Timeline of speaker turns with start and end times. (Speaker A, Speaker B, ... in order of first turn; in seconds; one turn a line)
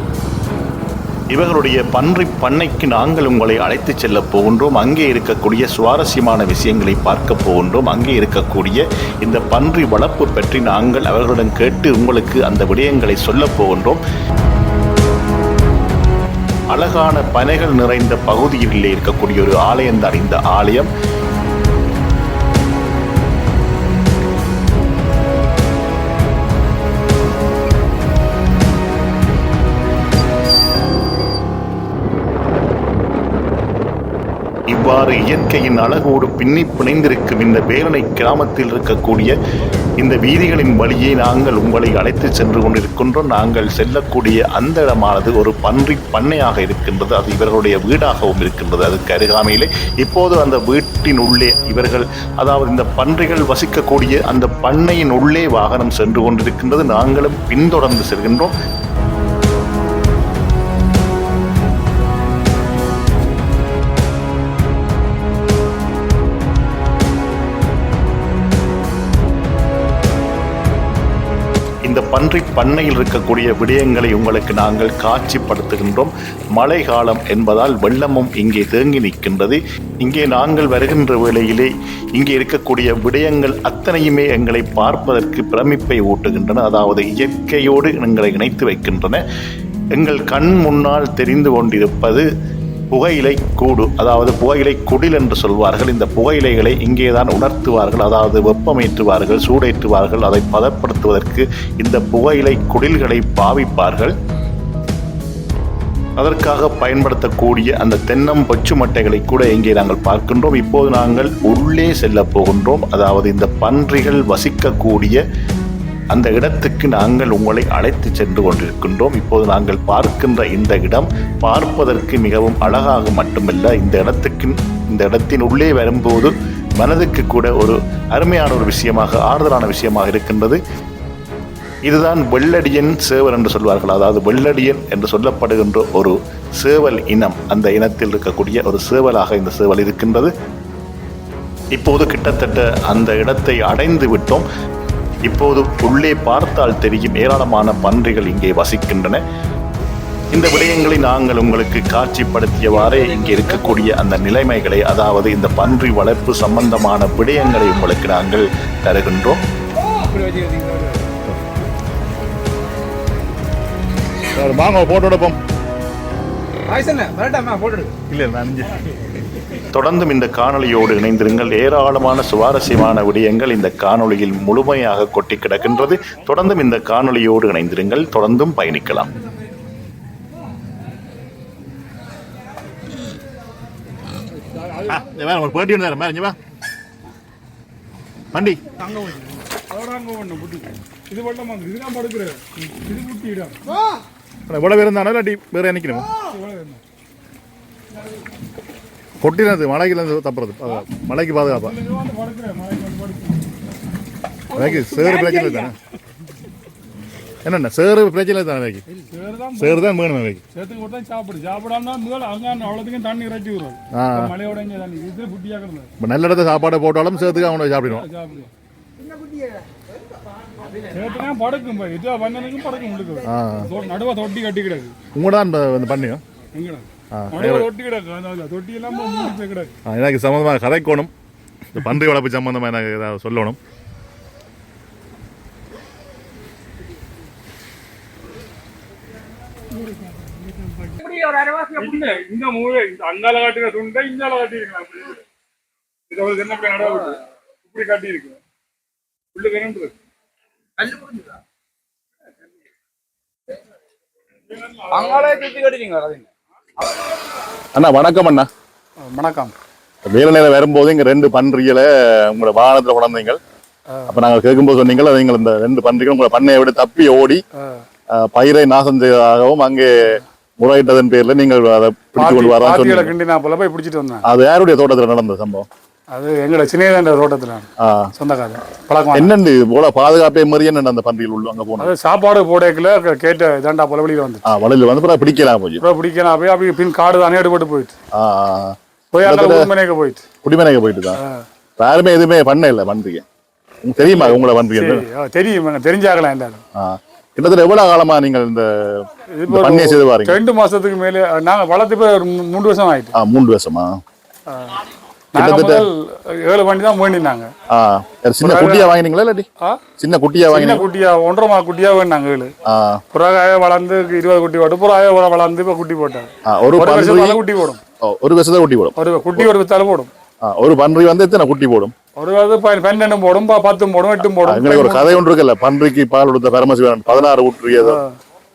Speaker A: 1.3-14.0
Speaker A: 16.7-20.9
Speaker A: 34.7-39.3
Speaker A: 40.0-58.5
Speaker A: 71.8-89.2
Speaker A: 90.0-92.2
Speaker A: 92.9-104.1
Speaker A: 106.2-115.2
Speaker A: 116.1-130.6
Speaker A: 131.8-140.3
Speaker A: 141.7-144.4
Speaker A: 145.3-149.2
Speaker A: 150.3-159.4
Speaker B: 160.0-161.1
Speaker C: 164.4-165.4
Speaker B: 166.7-167.9
Speaker C: 168.1-168.8
Speaker A: 169.7-179.1
Speaker D: 184.5-185.0
Speaker C: 184.9-186.4
Speaker C: 188.3-188.6
Speaker D: 189.0-193.6
Speaker C: 194.5-196.1
Speaker D: 196.2-196.8
Speaker C: 199.2-201.8
Speaker D: 201.4-203.5
Speaker C: 204.5-205.8
Speaker B: 204.7-205.7
Speaker C: 207.4-208.8
Speaker D: 209.0-209.9
Speaker C: 209.6-210.4
Speaker D: 210.5-215.9
Speaker C: 213.9-214.3
Speaker C: 216.0-218.1
Speaker D: 217.9-218.5
Speaker B: 219.0-219.7
Speaker D: 220.8-224.9
Speaker C: 223.2-223.7
Speaker C: 225.1-226.2
Speaker D: 226.5-229.7
Speaker C: 227.1-227.7
Speaker C: 229.8-231.1
Speaker C: 231.7-233.6
Speaker B: 241.1-241.6
Speaker D: 241.4-245.2
Speaker D: 246.1-248.4
Speaker D: 249.3-249.9
Speaker B: 250.9-251.2
Speaker D: 254.6-255.6
Speaker B: 255.0-256.2
Speaker C: 257.8-258.5
Speaker D: 259.0-259.5
Speaker C: 260.1-263.4
Speaker C: 264.1-267.4
Speaker C: 268.1-273.1
Speaker D: 272.2-274.2
Speaker C: 274.2-275.7
Speaker D: 276.1-279.3
Speaker C: 277.8-278.1
Speaker C: 279.1-281.9
Speaker D: 281.8-284.4
Speaker C: 284.5-285.8
Speaker D: 285.8-287.9
Speaker C: 288.1-289.7
Speaker D: 289.1-290.2
Speaker C: 290.4-291.2
Speaker D: 291.2-291.4
Speaker C: 291.8-293.2
Speaker C: 293.8-295.1
Speaker D: 294.1-296.6
Speaker C: 296.8-300.4
Speaker D: 299.3-303.1
Speaker C: 303.2-303.9
Speaker D: 304.5-304.8
Speaker D: 305.3-307.5
Speaker C: 305.4-305.9
Speaker C: 307.7-309.5
Speaker D: 308.4-308.9
Speaker C: 310.0-310.8
Speaker D: 310.5-312.5
Speaker C: 312.7-313.0
Speaker D: 313.1-317.8
Speaker C: 316.5-317.4
Speaker C: 318.0-319.5
Speaker D: 319.0-320.1
Speaker C: 320.4-321.9
Speaker D: 322.2-325.2
Speaker C: 324.4-328.0
Speaker D: 327.7-328.1